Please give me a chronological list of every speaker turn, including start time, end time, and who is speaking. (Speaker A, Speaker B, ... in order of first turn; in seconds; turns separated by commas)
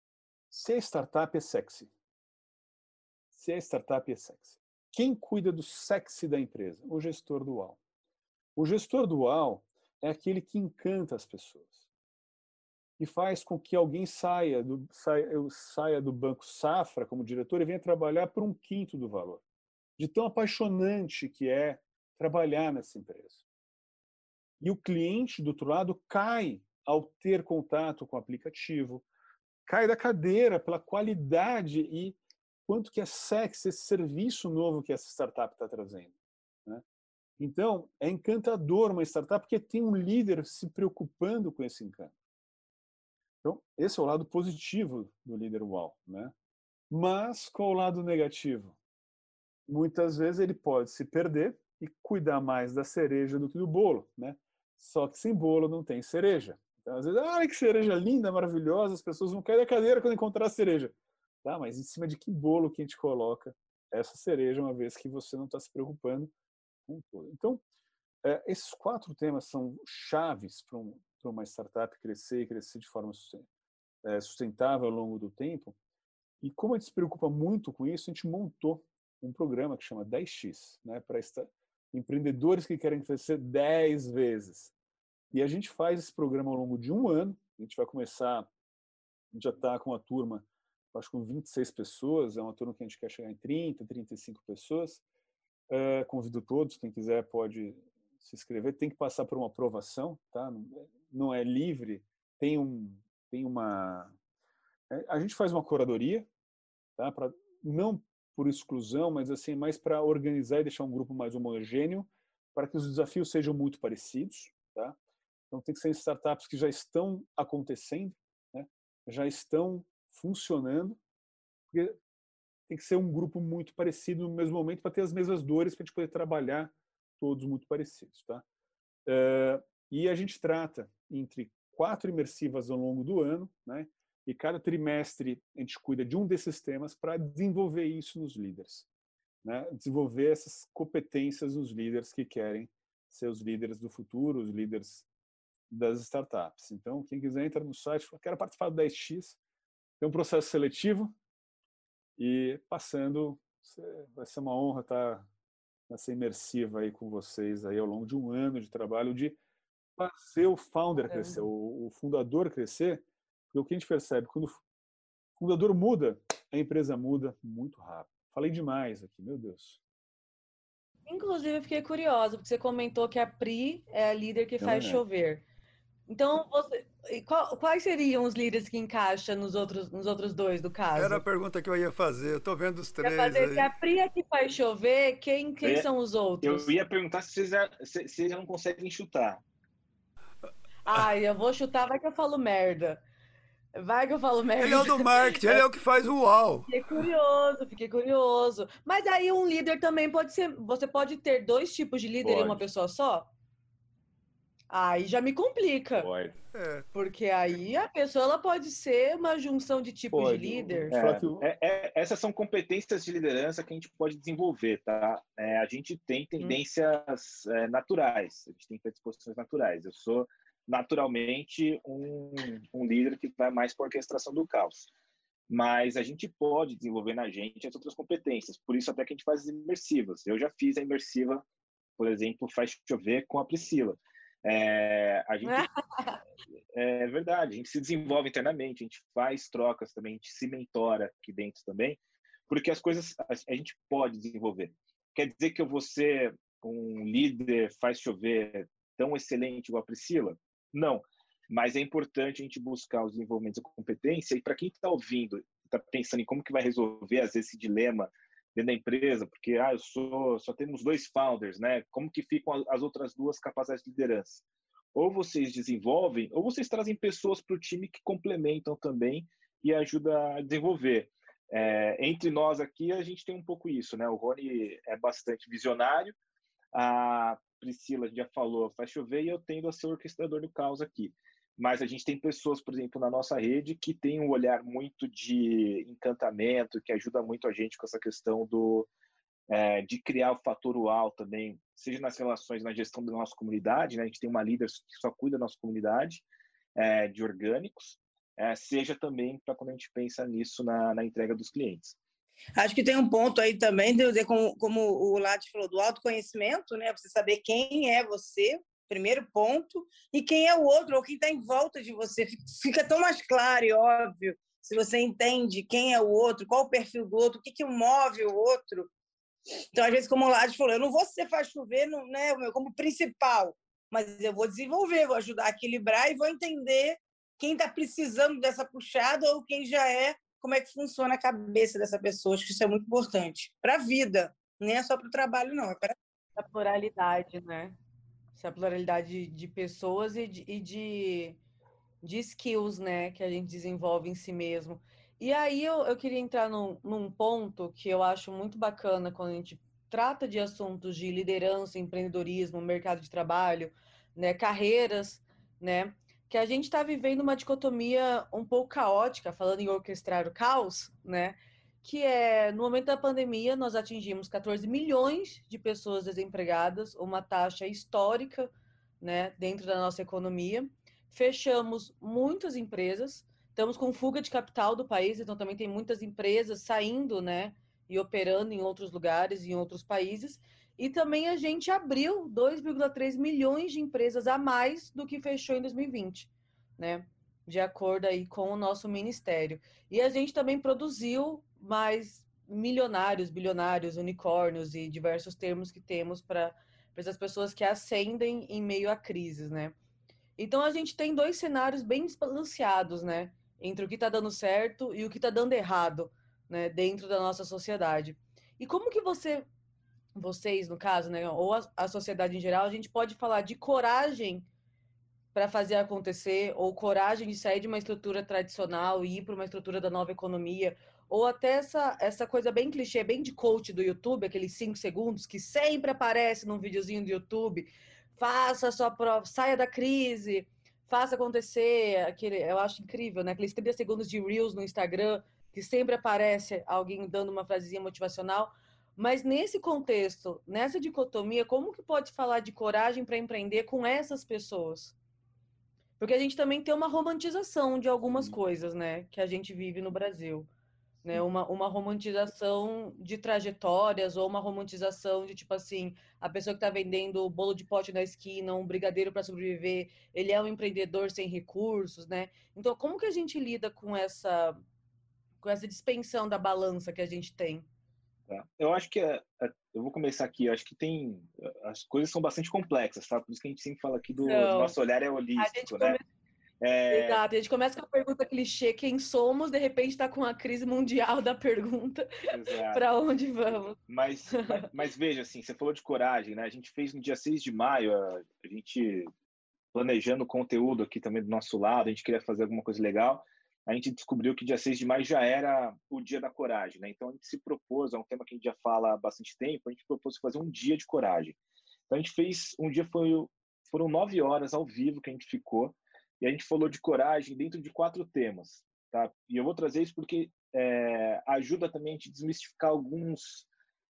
Speaker A: 0.5-1.9, Speaker A: 3.3-7.8, Speaker A: 8.6-11.8, Speaker A: 13.0-19.4, Speaker A: 20.0-23.4, Speaker A: 24.6-29.1, Speaker A: 29.7-36.1, Speaker A: 37.4-42.1, Speaker A: 43.4-46.3, Speaker A: 46.9-48.8, Speaker A: 49.7-66.3, Speaker A: 66.9-67.6, Speaker A: 68.2-73.5, Speaker A: 74.0-75.8, Speaker A: 76.4-84.7, Speaker A: 85.3-88.5, Speaker A: 89.3-95.0, Speaker A: 95.7-104.1, Speaker A: 104.9-106.3, Speaker A: 107.0-115.0, Speaker A: 115.5-121.0, Speaker A: 121.7-122.0, Speaker A: 122.7-128.4, Speaker A: 129.1-138.9, Speaker A: 139.4-145.1, Speaker A: 145.7-149.4, Speaker A: 150.0-151.1, Speaker A: 152.2-155.3, Speaker A: 155.9-159.4, Speaker A: 160.0-164.6, Speaker B: 161.0-161.5, Speaker A: 165.4-169.8, Speaker B: 171.1-175.4, Speaker A: 174.6-175.0, Speaker B: 176.1-181.2, Speaker C: 180.9-183.7, Speaker B: 183.0-186.7, Speaker D: 185.6-185.9, Speaker D: 186.4-189.4, Speaker B: 190.9-193.0, Speaker B: 193.8-195.7, Speaker C: 194.6-196.7, Speaker B: 196.7-203.3, Speaker D: 202.2-202.6, Speaker B: 204.7-206.1, Speaker D: 206.0-206.3, Speaker C: 206.5-206.9, Speaker B: 206.9-210.9, Speaker A: 210.1-211.4, Speaker D: 210.9-224.9, Speaker D: 225.5-231.4, Speaker D: 232.0-235.7, Speaker B: 235.4-236.2, Speaker D: 236.7-276.1, Speaker D: 276.7-288.9, Speaker D: 289.5-296.2, Speaker D: 296.8-302.0, Speaker E: 302.6-318.9, Speaker E: 319.7-335.9, Speaker B: 336.4-337.8, Speaker B: 338.4-341.4, Speaker B: 342.0-368.5, Speaker B: 369.0-399.8, Speaker B: 400.4-409.4, Speaker B: 410.2-414.5, Speaker B: 415.3-444.9, Speaker B: 446.0-450.5, Speaker B: 451.1-464.6, Speaker B: 465.4-467.7, Speaker D: 468.3-476.0, Speaker B: 474.2-474.7, Speaker B: 475.4-476.0, Speaker D: 476.6-477.2, Speaker B: 476.9-482.1, Speaker D: 482.3-482.8, Speaker B: 482.7-483.8, Speaker D: 483.9-489.1, Speaker D: 489.7-501.4, Speaker D: 501.9-513.5